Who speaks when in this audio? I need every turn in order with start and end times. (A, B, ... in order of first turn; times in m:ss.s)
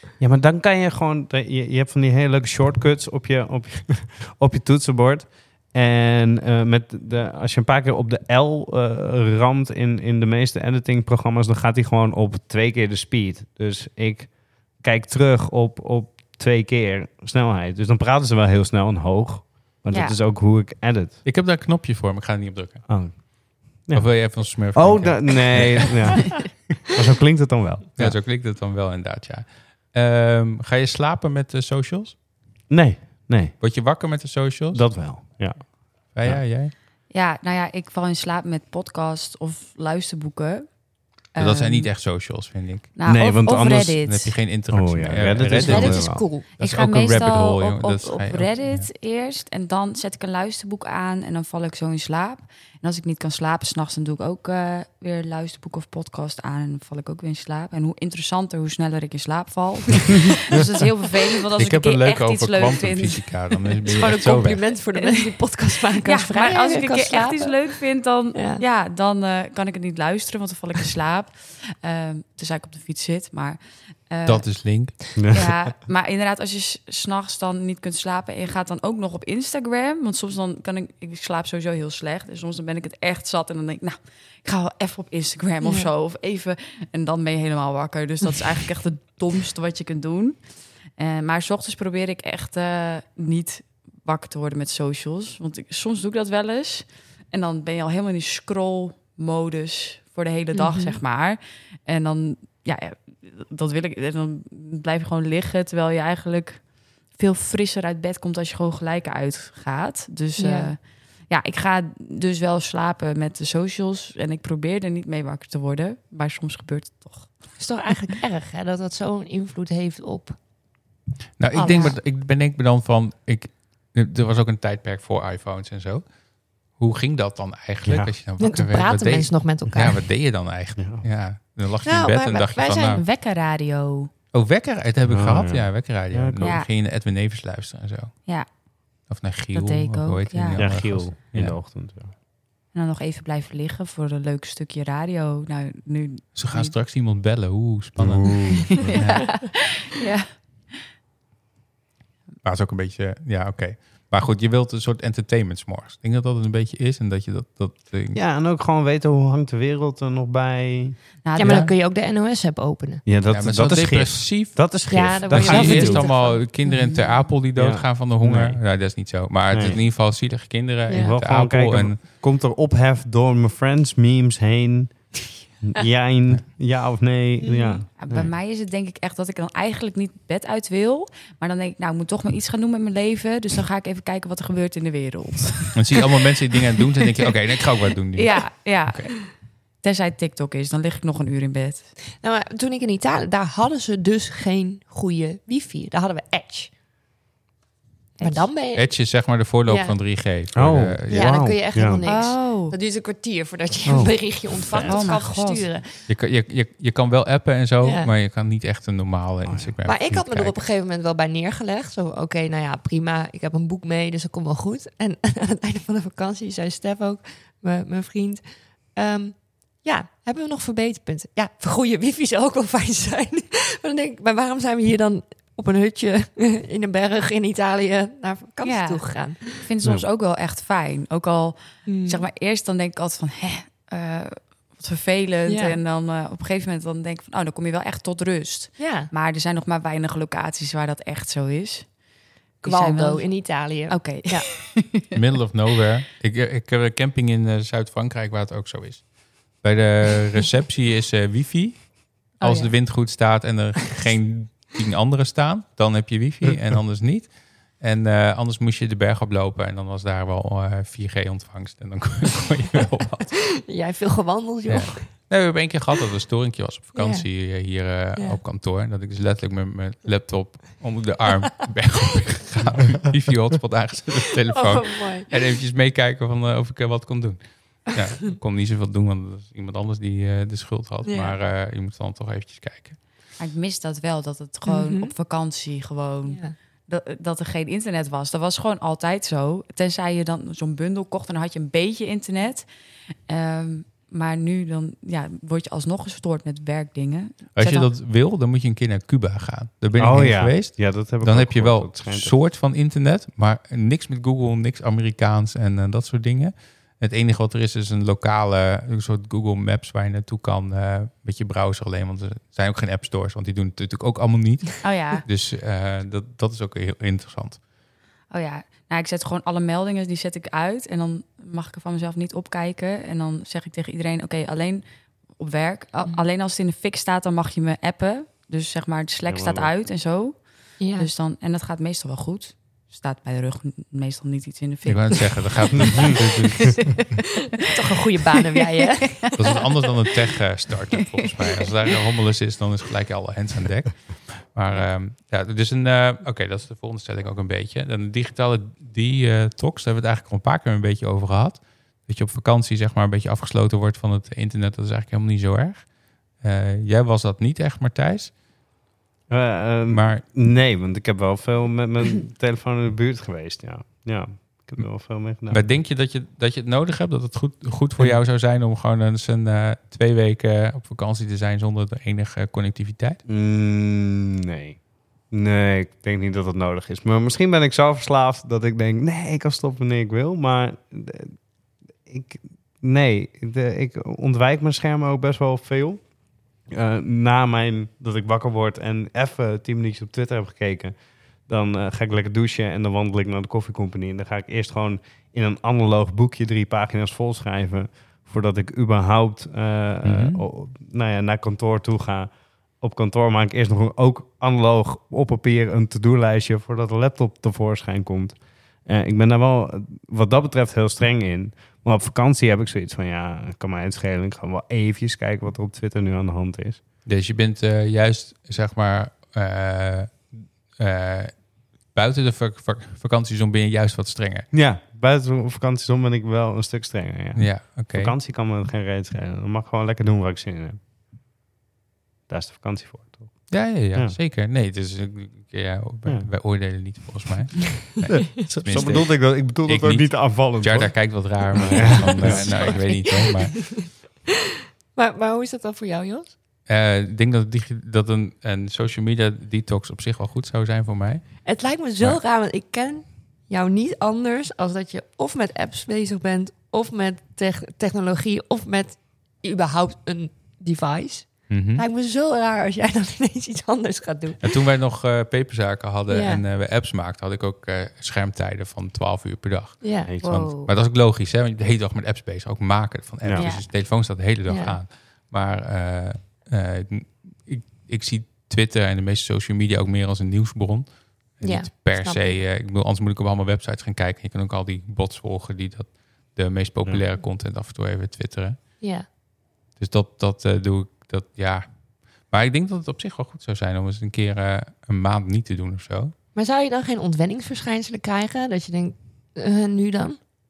0:00.2-0:21.2 A
0:19.9-0:20.2 B
0:21.2-0:23.3 C
0:22.9-0:28.2 A
0:23.9-0:26.4 C
0:28.0-0:32.2 C
0:32.7-0:33.6 A
0:33.6-0:35.2 C
0:34.7-0:36.4 A
0:36.1-0:36.7 C
0:37.1-0:40.8 B
0:41.3-0:41.9 B
0:41.4-0:42.9 C
0:43.0-0:44.4 B
0:43.0-0:44.0 A
0:43.7-0:48.9 C
0:44.7-0:46.2 A
0:45.5-0:46.4 D
0:46.5-1:03.3 B
1:01.6-1:04.6 C
1:03.8-1:07.6 D
1:04.9-1:05.3 B
1:06.0-1:14.4 B
1:08.3-1:08.6 D
1:14.2-1:15.0 C
1:15.2-1:30.4 B
1:15.2-1:15.6 A
1:25.6-1:25.9 D
1:31.0-1:46.6 B
1:40.5-1:41.0 D
1:47.1-1:57.3 B
1:50.4-1:50.7 D
1:57.6-2:00.4 D
2:01.4-2:06.0 C
2:01.5-2:02.0 D
2:01.6-2:01.9 B
2:06.7-2:13.0 C
2:07.8-2:08.1 A
2:08.4-2:10.0 D
2:10.8-2:11.0 A
2:11.8-2:13.0 D
2:12.9-2:14.1 B
2:14.3-2:18.1 C
2:15.1-2:16.6 A
2:16.4-2:16.7 B
2:19.1-2:21.6 C
2:19.5-2:20.6 B
2:20.6-2:22.1 A
2:22.7-2:26.7 B
2:26.3-2:29.4 C
2:28.0-2:28.9 A
2:28.8-2:30.3 B
2:32.4-2:38.2 C
2:38.1-2:41.5 A
2:41.2-2:41.7 B
2:41.3-2:43.0 D
2:43.0-2:46.1 A
2:43.2-2:52.0 C
2:44.9-2:47.0 D
2:47.5-2:48.6 A
2:49.5-2:49.8 A
2:50.9-2:51.2 D
2:50.9-2:58.3 A
2:57.4-2:57.8 D
2:58.0-3:06.0 B
3:05.7-3:08.4 C
3:08.1-3:09.3 B
3:09.8-3:11.9 B
3:12.2-3:16.7 D
3:18.2-3:18.5 B
3:18.2-3:18.9 D
3:18.7-3:21.4 C
3:19.7-3:20.0 D
3:20.5-3:22.0 A
3:21.1-3:25.9 D
3:22.0-3:22.7 B
3:23.8-3:25.0 A
3:24.8-3:25.6 B
3:26.1-3:30.6 C
3:27.8-3:28.1 D
3:29.4-3:29.7 A
3:29.8-3:38.4 D
3:38.9-3:49.6 D
3:48.6-4:01.9 B
3:51.8-3:52.2 D
3:55.4-3:55.8 D
3:58.8-3:59.1 D
4:02.6-4:05.0 B
4:02.6-4:04.5 D
4:05.1-4:23.5 C
4:12.4-4:12.7 D
4:23.6-4:25.1 D
4:24.7-4:43.0 C
4:26.9-4:27.2 D
4:28.1-4:28.4 D
4:34.5-4:35.3 D
4:41.0-4:41.3 D
4:43.4-4:52.7 B
4:44.6-4:45.1 D
4:46.2-4:46.5 D
4:53.3-4:57.9 B
4:57.6-5:17.6 C
5:00.0-5:02.3 A
5:14.8-5:15.2 B
5:18.3-5:24.8 B
5:25.4-5:30.4 B
5:29.3-5:29.7 A
5:30.8-5:31.1 D
5:31.0-5:37.1 B
5:34.8-5:37.0 C
5:35.8-5:36.1 A
5:37.6-5:39.4 D
5:38.3-5:39.5 B
5:39.3-5:55.9 C
5:56.4-5:58.3 C
5:59.3-6:05.7 A
5:59.9-6:00.2 C
6:05.5-6:13.2 C
6:13.3-6:21.4 A
6:22.0-6:26.0 A
6:26.7-6:56.8 A
6:40.0-6:40.4 C
6:57.0-7:04.5 C
7:04.5-7:10.8 A
7:07.4-7:08.1 C
7:12.3-7:14.2 A
7:13.5-7:23.6 C
7:18.1-7:22.7 A
7:21.7-7:23.9 D
7:24.9-7:26.3 D
7:26.7-7:31.3 C
7:31.4-7:44.4 D
7:41.5-7:41.8 C
7:44.4-8:08.6 C
7:46.1-7:46.4 D
7:49.8-7:50.1 D
7:50.2-7:50.7 B
7:53.2-7:53.5 A
7:53.4-7:53.6 B
7:54.5-7:54.8 D
8:01.4-8:02.4 D
8:08.8-8:09.0 D
8:09.8-8:11.7 C
8:12.2-8:16.1 C
8:16.3-8:20.2 D